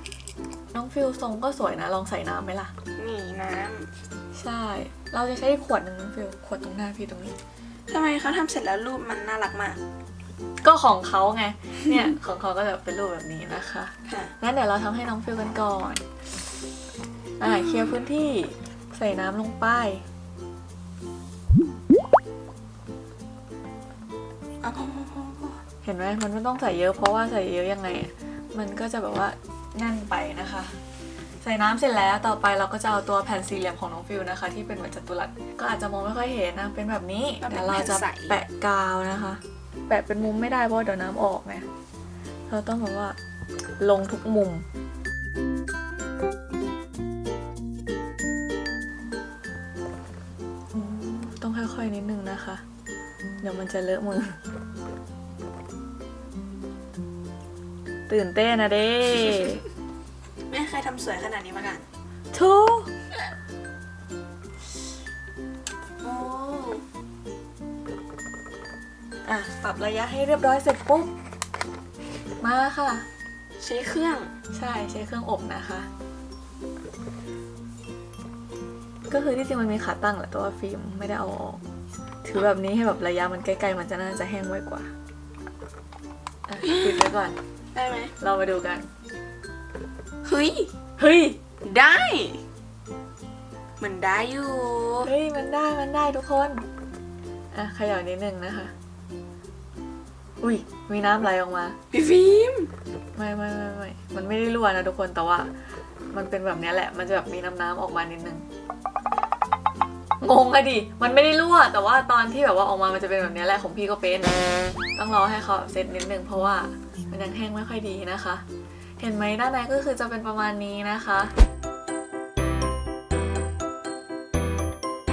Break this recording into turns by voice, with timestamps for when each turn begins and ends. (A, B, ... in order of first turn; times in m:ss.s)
0:00.7-0:02.7 A
0:03.0-0:03.9 B
0:04.4-0:07.4 A
0:07.9-0:09.8 B
0:10.6-0:16.2 A
0:14.1-0:14.3 B
0:17.4-0:20.0 A
0:17.4-0:18.0 B
0:24.6-0:25.6 B
0:25.8-0:30.7 A
0:31.4-0:41.6 A
0:37.4-0:38.4 B
0:42.5-0:43.2 A
0:43.8-0:44.6 A
0:50.7-0:52.6 A
0:53.4-0:54.4 A
0:58.1-0:59.6 A
0:59.1-0:59.6 B
1:00.5-1:01.9 B
1:02.3-1:02.9 A
1:06.0-1:06.8 B
1:09.2-1:11.1 A
1:12.4-1:13.1 A
1:13.6-1:14.3 B
1:14.5-1:15.9 A
1:19.1-1:21.6 A
1:22.2-1:24.9 A
1:26.5-1:27.4 A
1:26.6-1:27.1 B
1:27.7-1:28.1 B
1:28.2-1:28.9 A
1:30.2-1:30.7 B
1:31.0-1:31.4 A
1:31.6-1:32.4 B
1:33.8-1:35.1 B
1:35.0-1:36.6 A
1:37.5-1:38.7 A
1:40.4-1:41.8 A
1:41.9-1:42.7 B
1:43.2-1:45.5 A
1:46.1-1:48.4 A
1:50.2-1:54.4 A
1:55.0-1:58.4 A
1:59.0-2:01.3 A